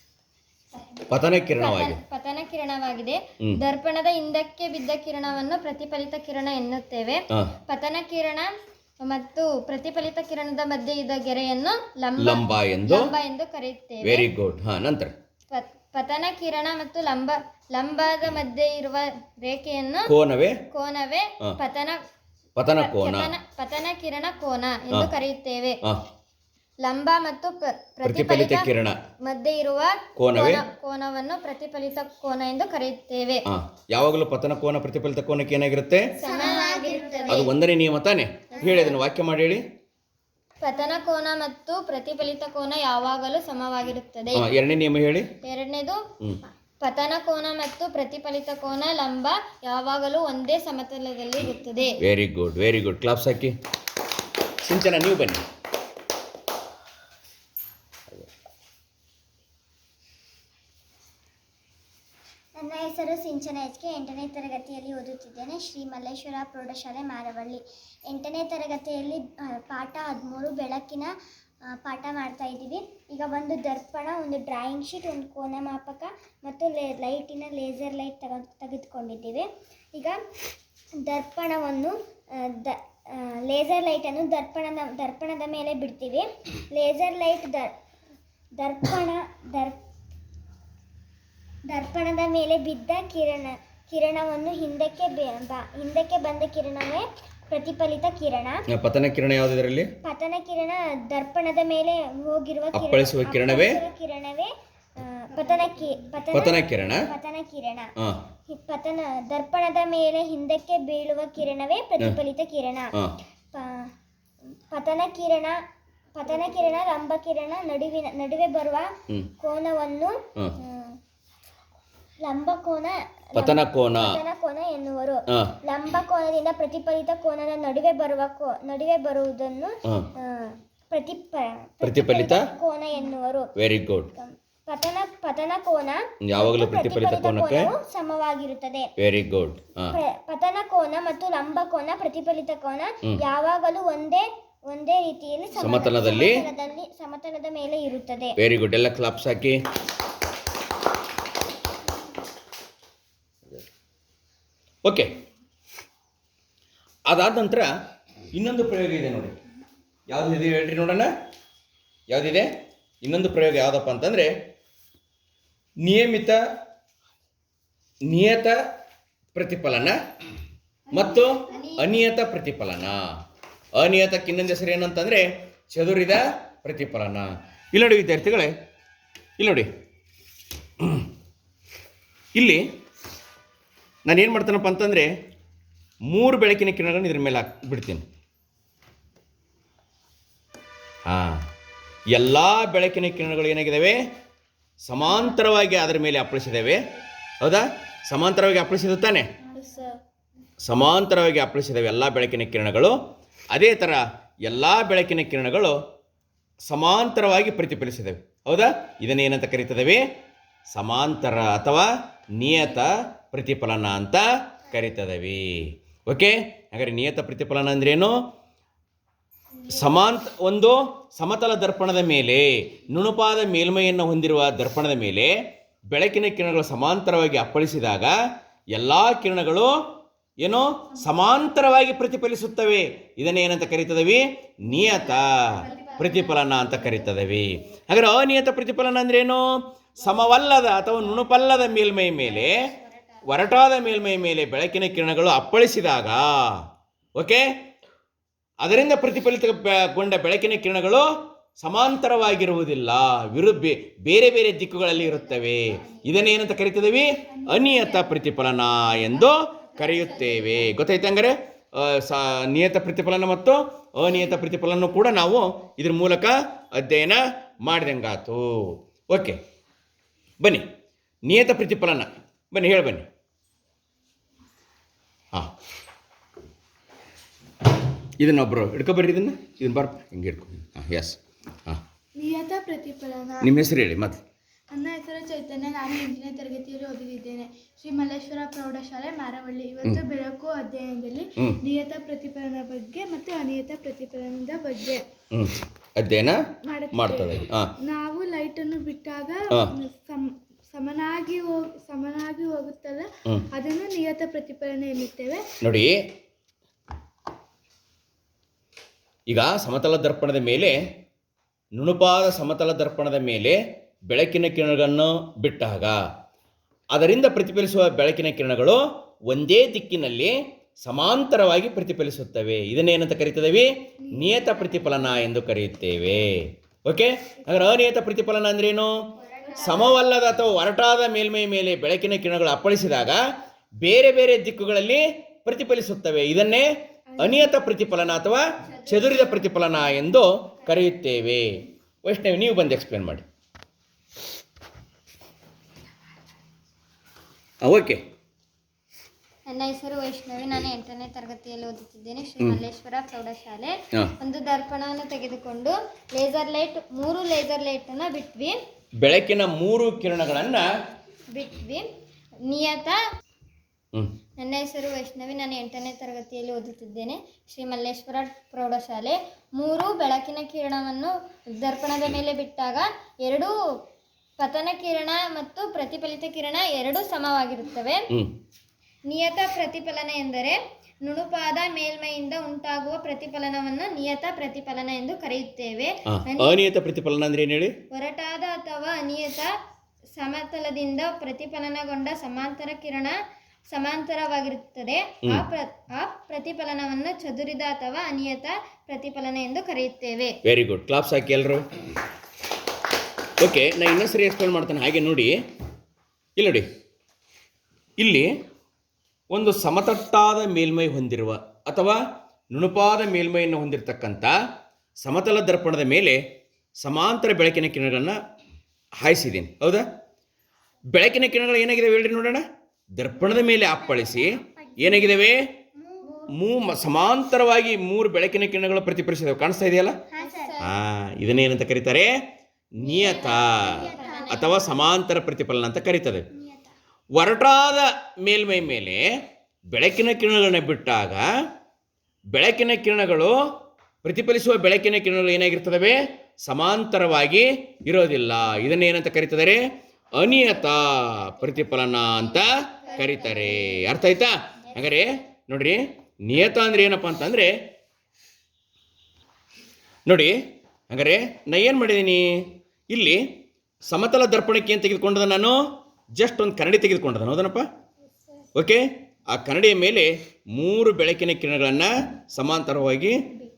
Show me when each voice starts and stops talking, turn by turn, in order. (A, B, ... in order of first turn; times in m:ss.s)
0:01.1-0:02.0 A
0:01.6-0:08.5 B
0:09.0-0:14.3 B
0:12.2-0:13.1 A
0:14.0-0:15.1 A
0:15.5-0:20.1 B
0:20.1-0:20.5 A
0:20.7-0:22.0 B
0:22.6-0:23.3 A
0:22.8-0:25.8 B
0:26.8-0:28.7 B
0:28.0-0:29.0 A
0:29.2-0:33.4 B
0:30.2-0:30.6 A
0:33.5-0:36.1 A
0:36.2-0:37.5 C
0:36.2-0:37.5 B
0:37.3-0:39.6 A
0:38.6-0:38.9 B
0:40.6-0:44.5 B
0:44.3-0:45.3 A
0:45.4-0:46.0 B
0:46.8-0:52.0 B
0:52.0-0:53.5 A
0:54.6-0:55.4 A
1:02.6-1:11.1 C
1:11.7-1:20.2 C
1:21.0-1:27.7 C
1:28.6-1:29.8 C
1:31.7-1:38.6 C
1:38.7-1:39.9 A
1:40.0-1:47.9 C
1:42.7-1:43.8 A
1:46.3-1:47.1 A
1:48.5-1:52.9 C
1:53.5-1:53.9 C
1:54.7-1:55.6 C
1:56.1-2:01.0 C
2:02.2-2:13.5 C
2:03.3-2:04.2 A
2:11.8-2:12.4 A
2:13.6-2:14.1 A
2:14.1-2:18.9 C
2:16.2-2:17.7 A
2:19.0-2:20.0 A
2:19.9-2:28.3 C
2:25.5-2:26.4 A
2:28.4-2:29.6 A
2:34.8-2:35.1 A
2:37.1-2:37.7 A
2:38.3-2:39.4 A
2:40.1-2:41.1 A
2:42.1-2:42.5 A
2:43.0-2:44.3 A
2:45.8-2:46.4 A
2:48.1-2:48.6 A
2:49.3-2:50.0 A
2:50.9-2:53.1 A
2:51.5-2:51.9 B
2:53.7-2:58.5 A
2:59.4-2:59.7 A
3:00.8-3:01.1 A
3:02.3-3:02.6 A
3:04.0-3:05.1 A
3:06.0-3:08.0 A
3:11.0-3:11.4 A
3:12.1-3:14.0 A
3:14.8-3:16.8 A
3:17.4-3:19.3 A
3:20.6-3:22.9 A
3:23.5-3:25.8 A
3:26.6-3:30.0 A
3:30.7-3:38.2 A
3:39.7-3:45.3 A
3:45.9-3:48.1 A
3:48.7-3:49.7 A
3:50.4-4:02.6 A
3:54.9-3:56.6 B
4:02.3-4:02.9 B
4:03.2-4:07.5 A
4:08.6-4:29.4 A
4:15.6-4:15.9 B
4:30.4-4:30.6 A
4:31.2-4:33.1 A
4:38.2-4:41.8 A
4:42.2-4:43.5 D
4:43.4-4:44.2 A
4:44.7-4:55.0 D
4:55.3-4:56.4 A
4:56.6-5:05.4 D
4:56.9-4:57.7 A
5:05.6-5:06.0 A
5:09.3-5:10.8 A
5:11.7-5:16.0 A
5:16.9-5:29.1 A
5:24.1-5:24.6 D
5:29.3-5:29.9 B
5:29.6-5:33.2 A
5:33.8-5:43.2 A
5:37.2-5:37.6 D
5:47.6-5:48.0 A
5:49.5-5:58.6 B
5:59.0-6:00.7 A
6:01.3-6:01.8 B
6:02.5-6:03.0 B
6:04.4-6:13.5 B
6:14.4-6:18.0 B
6:19.1-6:26.6 B
6:26.1-6:27.7 A
6:27.9-6:29.5 B
6:30.2-6:33.1 B
6:33.7-6:40.3 B
6:40.4-6:41.6 A
6:43.4-6:45.3 A
6:46.4-6:46.7 A
6:48.0-6:48.3 A
6:49.3-6:54.4 A
6:55.0-6:56.2 A
6:56.8-6:58.2 A
6:59.0-6:59.8 A
7:00.9-7:05.4 A
7:03.6-7:05.2 C
7:05.8-7:06.3 C
7:06.3-7:10.0 A
7:10.1-7:10.6 C
7:10.2-7:10.7 B
7:10.6-7:12.1 A
7:12.8-7:16.3 A
7:12.8-7:14.6 C
7:13.0-7:14.7 B
7:17.1-7:19.0 A
7:19.7-7:21.2 A
7:22.3-7:23.3 A
7:24.0-7:29.6 A
7:30.1-7:37.6 A
7:40.0-7:40.4 A
7:40.9-7:43.2 A
7:43.9-7:45.6 A
7:46.1-7:47.7 A
7:48.5-7:53.2 A